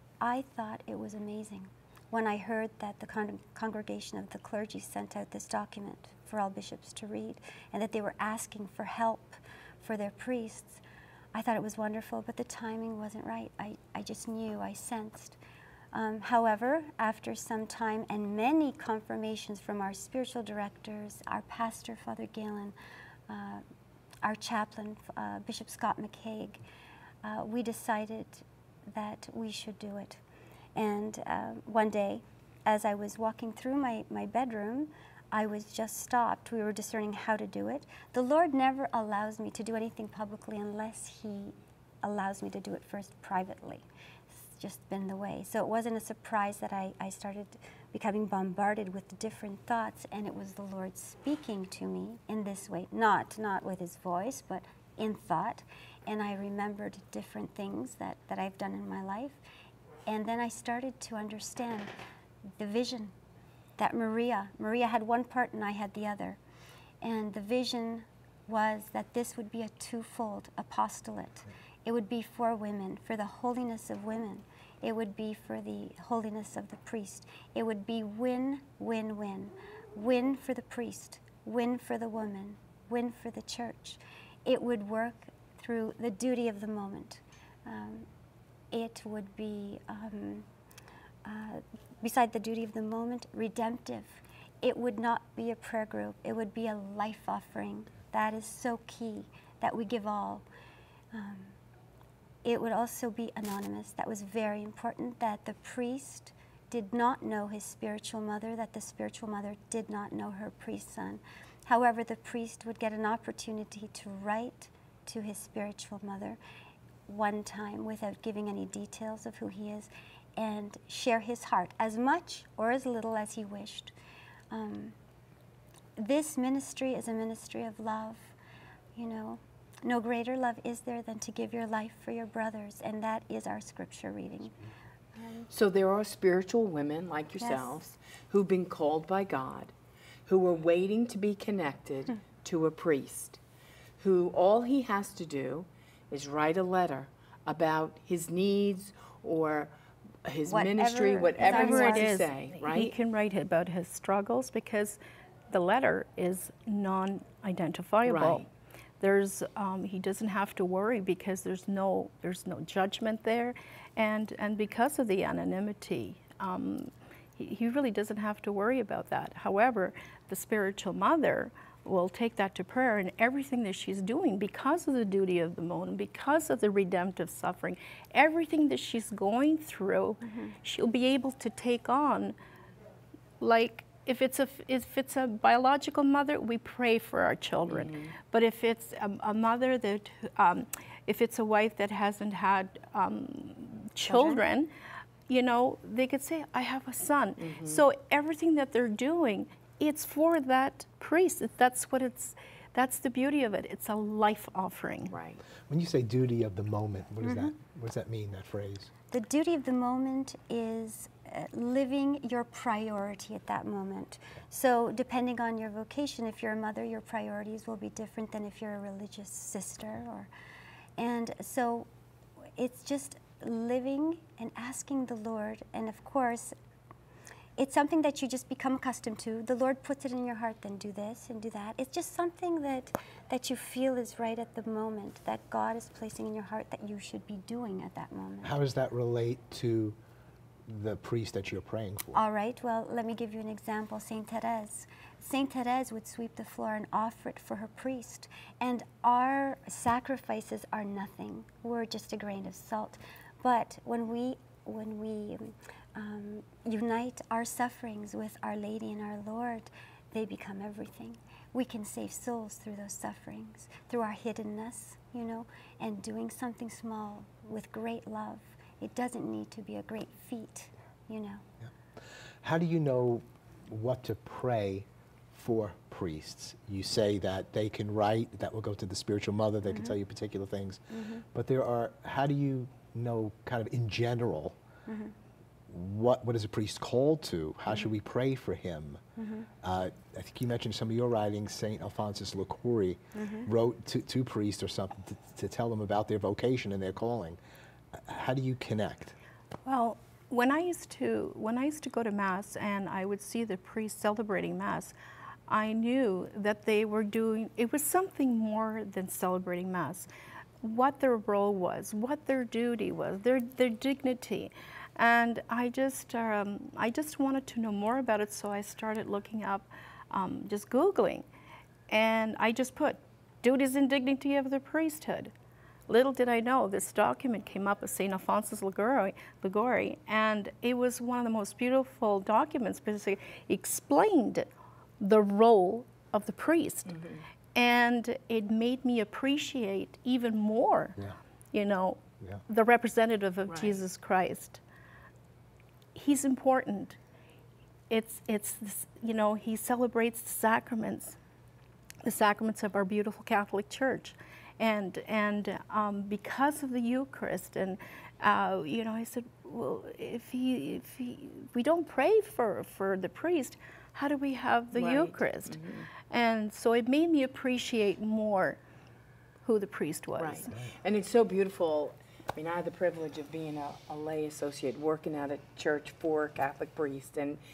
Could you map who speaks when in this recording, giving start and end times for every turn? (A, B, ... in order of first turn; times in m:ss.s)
0:00.2-0:10.8 A
0:11.3-0:15.4 A
0:15.9-0:22.8 A
0:23.3-0:23.6 A
0:24.2-0:26.6 A
0:27.2-0:30.2 A
0:30.8-0:59.4 A
1:00.1-1:01.9 A
1:02.6-1:03.1 A
1:03.8-1:06.4 A
1:07.0-1:28.1 A
1:28.7-1:30.5 A
1:31.2-1:40.4 A
1:41.1-1:41.6 A
1:42.4-1:56.4 A
1:57.1-2:03.9 A
2:04.5-2:05.0 A
2:06.0-2:08.3 A
2:09.0-2:14.6 A
2:15.2-2:15.5 A
2:15.5-2:19.7 B
2:17.4-2:17.8 A
2:20.3-2:23.4 B
2:24.0-2:29.7 B
2:30.2-2:32.9 B
2:30.5-2:32.1 A
2:31.4-2:35.0 C
2:35.5-2:38.4 C
2:38.0-2:38.5 B
2:39.0-3:02.3 C
3:03.4-3:14.7 C
3:07.7-3:08.1 B
3:14.1-3:14.4 A
3:15.3-3:25.1 C
3:17.4-3:17.8 B
3:25.1-3:25.4 B
3:25.7-3:28.9 D
3:27.2-3:27.5 A
3:29.1-3:40.3 A
3:41.0-3:41.9 A
3:42.6-3:46.5 A
3:47.6-3:58.6 A
3:58.4-4:00.0 D
4:00.6-4:02.2 D
4:02.1-4:31.4 A
4:32.4-4:44.6 D
4:39.7-4:39.9 A
4:40.9-4:41.2 A
4:44.9-4:45.1 A
4:45.7-4:49.0 D
4:49.2-4:49.5 A
4:49.6-4:57.4 D
4:53.1-4:53.5 A
4:57.9-4:59.2 D
4:59.6-5:04.9 C
5:05.5-5:10.1 C
5:10.6-5:21.2 C
5:21.9-5:25.3 C
5:25.9-5:37.0 C
5:36.9-5:37.2 B
5:37.5-5:41.0 C
5:41.5-5:44.6 C
5:43.5-5:43.8 B
5:45.9-5:47.0 C
5:47.9-5:51.2 C
5:52.0-6:08.6 C
6:04.7-6:05.9 B
6:09.4-6:10.5 C
6:10.2-6:17.4 B